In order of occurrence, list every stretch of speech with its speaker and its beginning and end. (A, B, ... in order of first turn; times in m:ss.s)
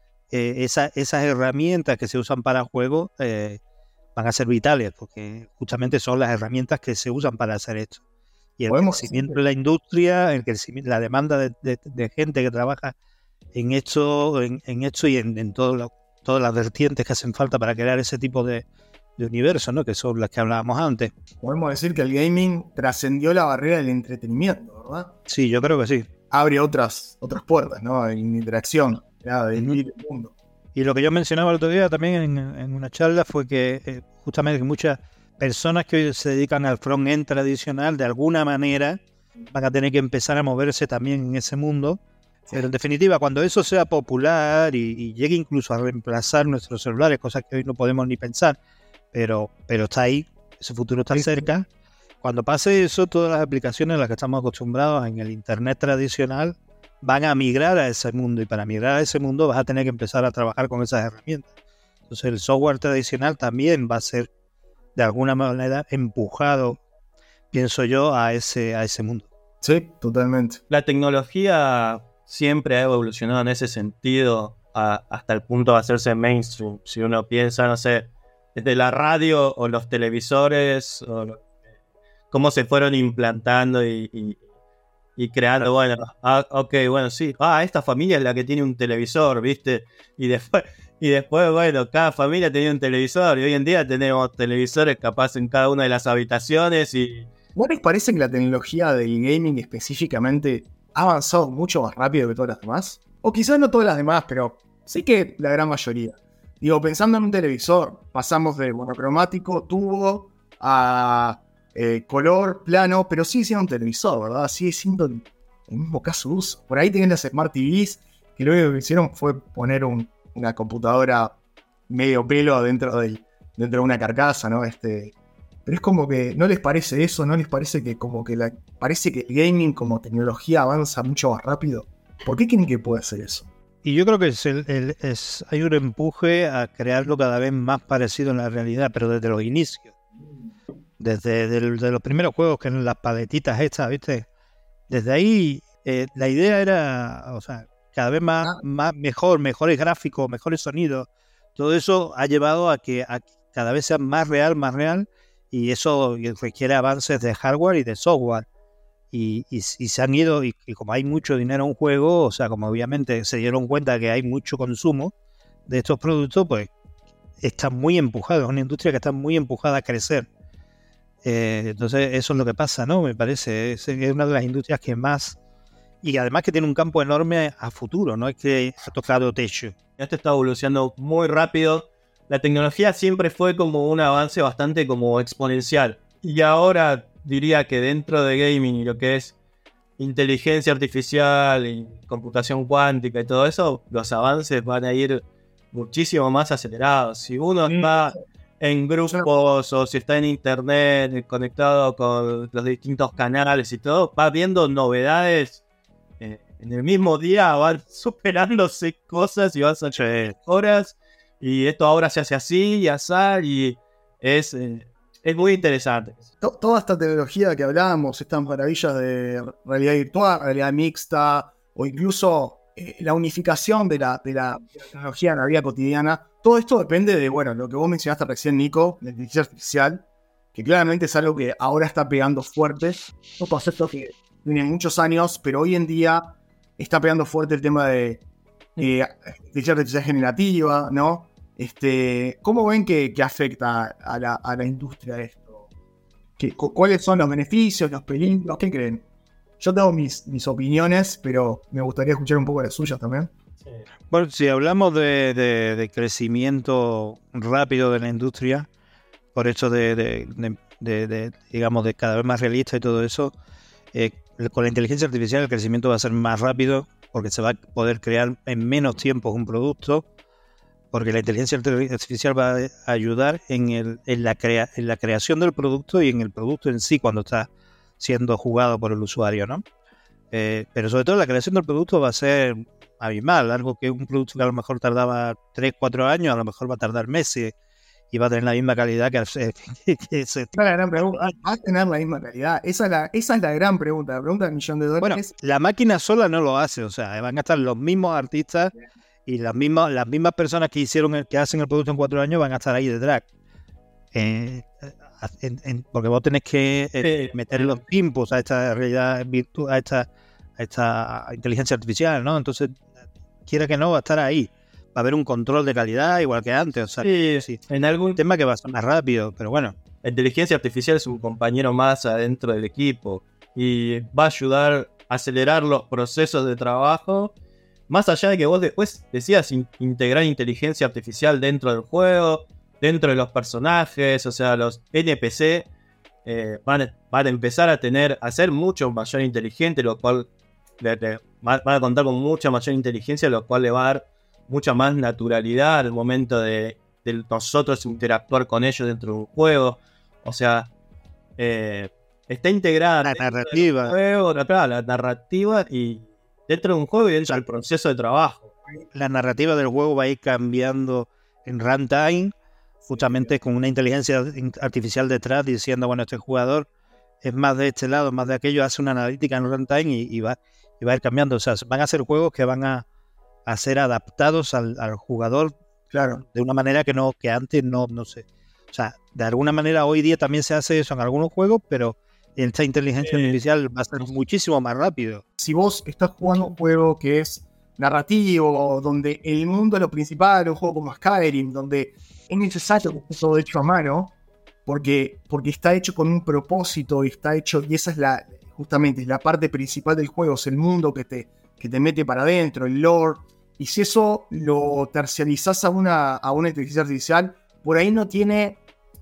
0:00.3-0:03.6 A
0:04.1-0:08.0 A
0:08.6-0:12.9 A
0:08.7-0:09.4 B
0:13.5-0:18.6 A
0:19.2-0:21.1 A
0:21.4-0:25.1 B
0:25.3-0:26.1 A
0:26.3-0:30.3 B
0:30.7-0:39.0 A
0:39.5-0:42.0 A
0:42.5-0:48.6 A
0:49.1-0:51.7 A
0:51.1-0:51.5 B
0:52.2-1:01.5 A
1:02.1-1:04.3 A
1:04.9-1:06.8 A
1:07.5-1:09.3 A
1:09.6-1:10.6 B
1:10.7-1:21.4 C
1:22.3-1:24.4 C
1:25.2-1:37.3 C
1:37.6-2:01.4 B
2:01.9-2:05.1 B
2:05.6-2:13.5 B
2:13.8-2:19.9 A
2:21.0-2:24.3 A
2:24.9-2:38.4 A
2:39.1-2:45.1 A
2:45.7-2:46.7 A
2:47.4-2:50.3 A
2:51.2-2:55.4 A
2:56.0-2:59.7 A
3:00.0-3:09.3 C
3:10.0-3:25.6 C
3:17.7-3:18.1 B
3:26.2-3:36.2 C
3:29.9-3:30.3 A
3:36.4-3:58.2 B
3:58.8-4:05.6 B
4:06.4-4:09.0 B
4:09.6-4:13.3 B
4:14.1-4:18.7 A
4:19.3-4:23.3 A
4:23.9-4:30.0 A
4:30.9-4:39.6 A
4:40.3-4:47.6 A
4:48.1-4:50.5 A
4:50.5-4:55.3 B
4:55.0-4:58.7 A
4:59.2-5:03.2 A
5:04.1-5:17.6 A
5:07.0-5:07.8 C
5:17.0-5:18.2 C
5:18.1-5:19.8 A
5:20.0-5:27.3 C
5:27.9-5:35.7 C
5:36.2-5:40.3 C
5:40.8-5:50.7 C
5:51.4-5:58.5 C
5:53.0-5:54.0 A
5:58.9-6:02.3 A
6:02.9-6:03.4 B
6:02.9-6:06.7 A
6:07.2-6:12.8 A
6:13.4-6:15.5 A
6:15.9-6:16.2 B
6:16.2-6:25.2 A
6:23.0-6:23.4 C
6:25.4-6:48.6 B